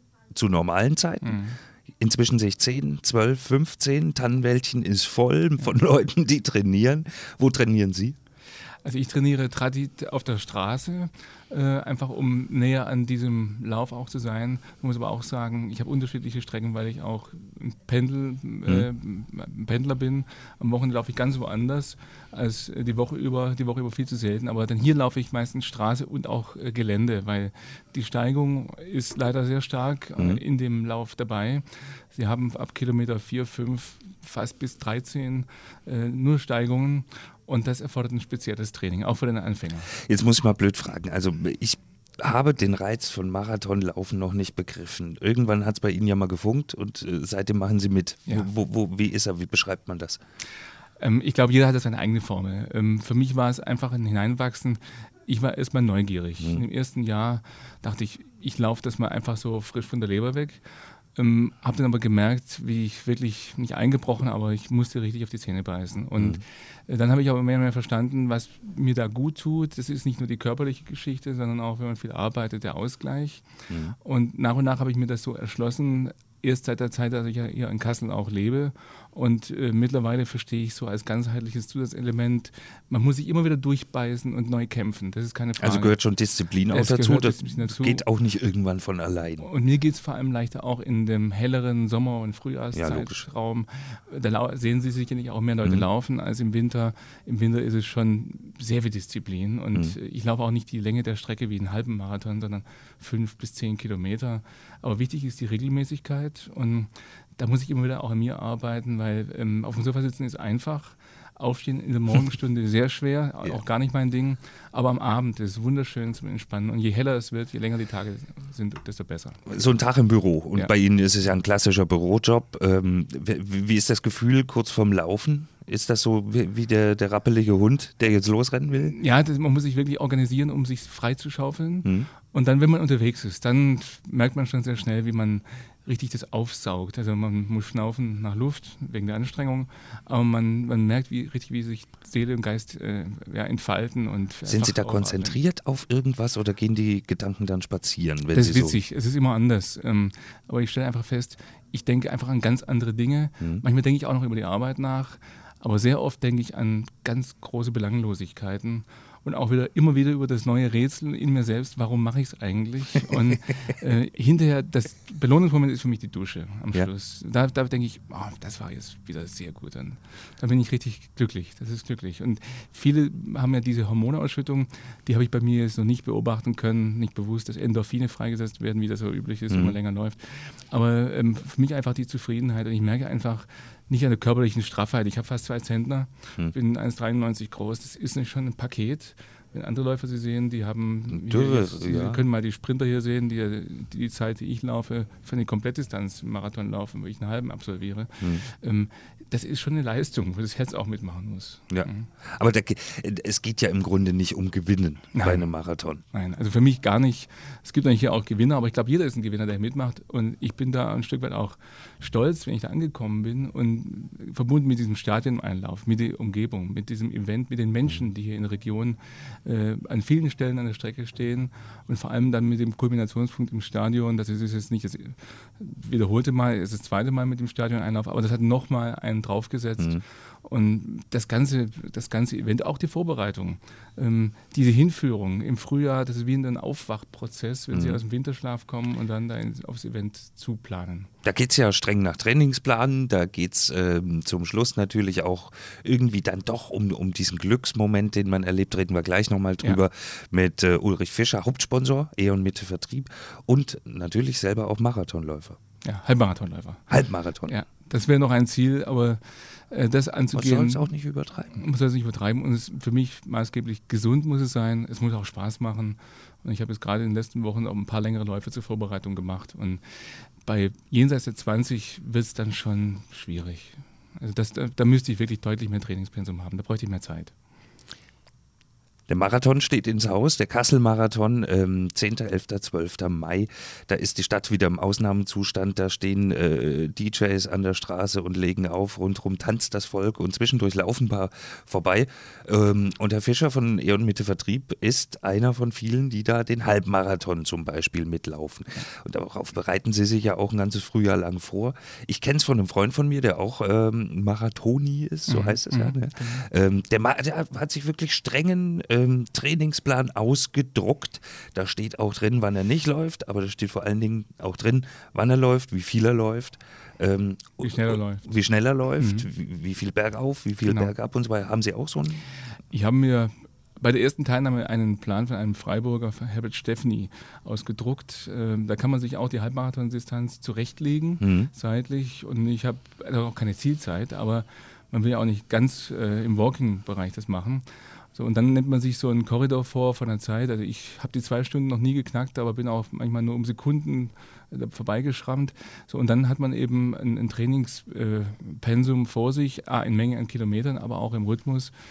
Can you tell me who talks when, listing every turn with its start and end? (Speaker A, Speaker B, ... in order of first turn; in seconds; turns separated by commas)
Speaker A: 0.3-1.4, Speaker B: 1.2-1.6, Speaker A: 2.0-8.2, Speaker B: 8.8-39.9, Speaker A: 39.9-50.2, Speaker B: 51.0-60.6, Speaker A: 56.4-56.6, Speaker B: 61.2-73.5, Speaker A: 66.2-66.4, Speaker A: 73.7-74.0, Speaker B: 74.0-86.0, Speaker A: 85.6-89.5, Speaker B: 86.7-88.0, Speaker B: 89.4-119.5, Speaker A: 92.7-93.2, Speaker A: 119.5-128.9, Speaker B: 128.8-145.4, Speaker A: 144.5-148.8, Speaker B: 148.3-202.1, Speaker A: 179.5-179.8, Speaker A: 191.1-192.2, Speaker A: 201.7-206.0, Speaker B: 205.1-205.5, Speaker B: 206.1-241.1, Speaker A: 229.8-230.0, Speaker A: 237.7-238.0, Speaker A: 241.2-255.6, Speaker B: 255.8-256.9, Speaker A: 256.9-257.6, Speaker B: 257.5-260.9, Speaker A: 260.3-261.6, Speaker B: 261.5-277.3, Speaker A: 279.1-322.3, Speaker B: 305.3-306.5, Speaker B: 317.6-318.2, Speaker B: 319.0-319.3, Speaker B: 320.6-320.9, Speaker B: 322.7-351.7, Speaker A: 331.2-331.5